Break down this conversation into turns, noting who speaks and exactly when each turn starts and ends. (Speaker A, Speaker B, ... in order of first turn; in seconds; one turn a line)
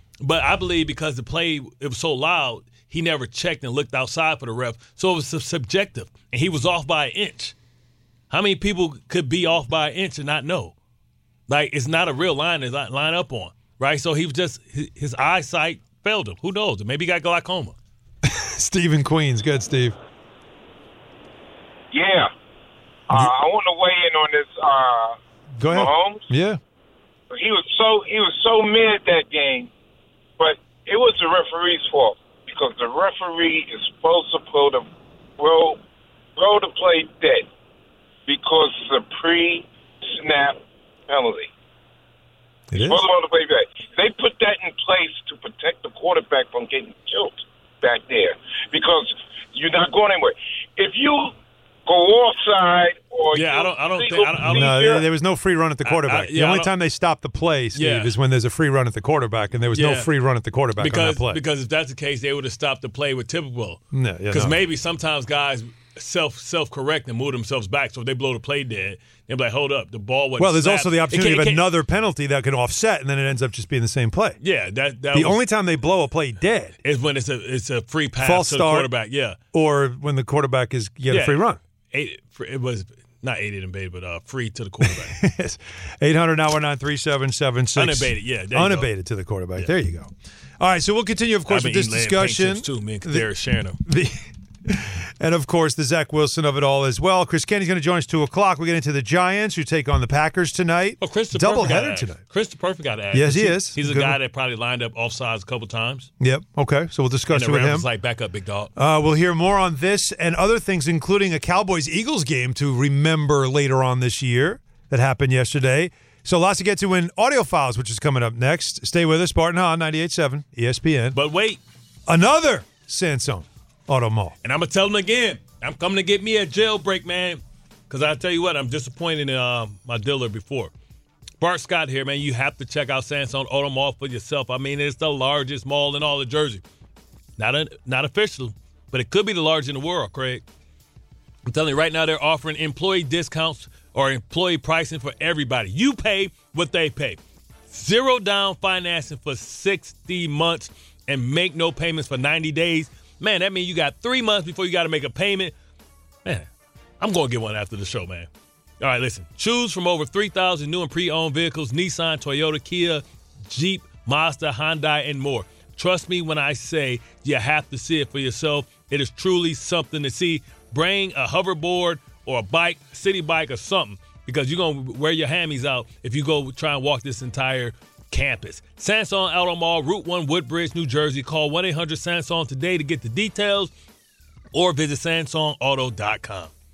Speaker A: 0.2-7.5
Speaker A: 8.3-10.7
Speaker A: 11.5-17.7
Speaker B: 18.2-19.9
Speaker C: 21.9-22.3
Speaker C: 23.1-25.1
Speaker B: 25.6-26.6
Speaker C: 25.7-26.2
Speaker C: 27.3-29.7
Speaker C: 30.4-34.9
Speaker C: 35.4-35.8
Speaker C: 36.4-37.5
Speaker C: 38.3-41.5
Speaker B: 42.7-43.1
Speaker C: 42.8-51.3
Speaker C: 51.9-55.0
Speaker A: 53.3-55.0
Speaker B: 54.4-61.4
Speaker A: 55.8-56.7
Speaker A: 57.7-58.1
Speaker A: 59.7-60.1
Speaker A: 60.8-71.7
Speaker B: 63.9-64.6
Speaker B: 70.4-74.4
Speaker A: 74.4-75.4
Speaker B: 75.1-76.8
Speaker A: 76.8-79.4
Speaker B: 78.2-78.9
Speaker B: 79.5-81.6
Speaker A: 81.1-85.2
Speaker B: 84.8-90.1
Speaker A: 87.8-88.9
Speaker B: 90.6-93.3
Speaker A: 91.5-93.8
Speaker B: 93.8-102.2
Speaker A: 101.0-106.1
Speaker B: 103.1-104.2
Speaker B: 106.2-107.8
Speaker A: 107.3-108.7
Speaker B: 108.8-121.2
Speaker A: 121.1-121.6
Speaker B: 122.1-124.3
Speaker A: 124.4-130.7
Speaker A: 131.4-136.6
Speaker A: 137.4-140.4
Speaker A: 141.4-155.5
Speaker A: 157.0-158.3
Speaker A: 158.8-183.7
Speaker A: 184.5-186.5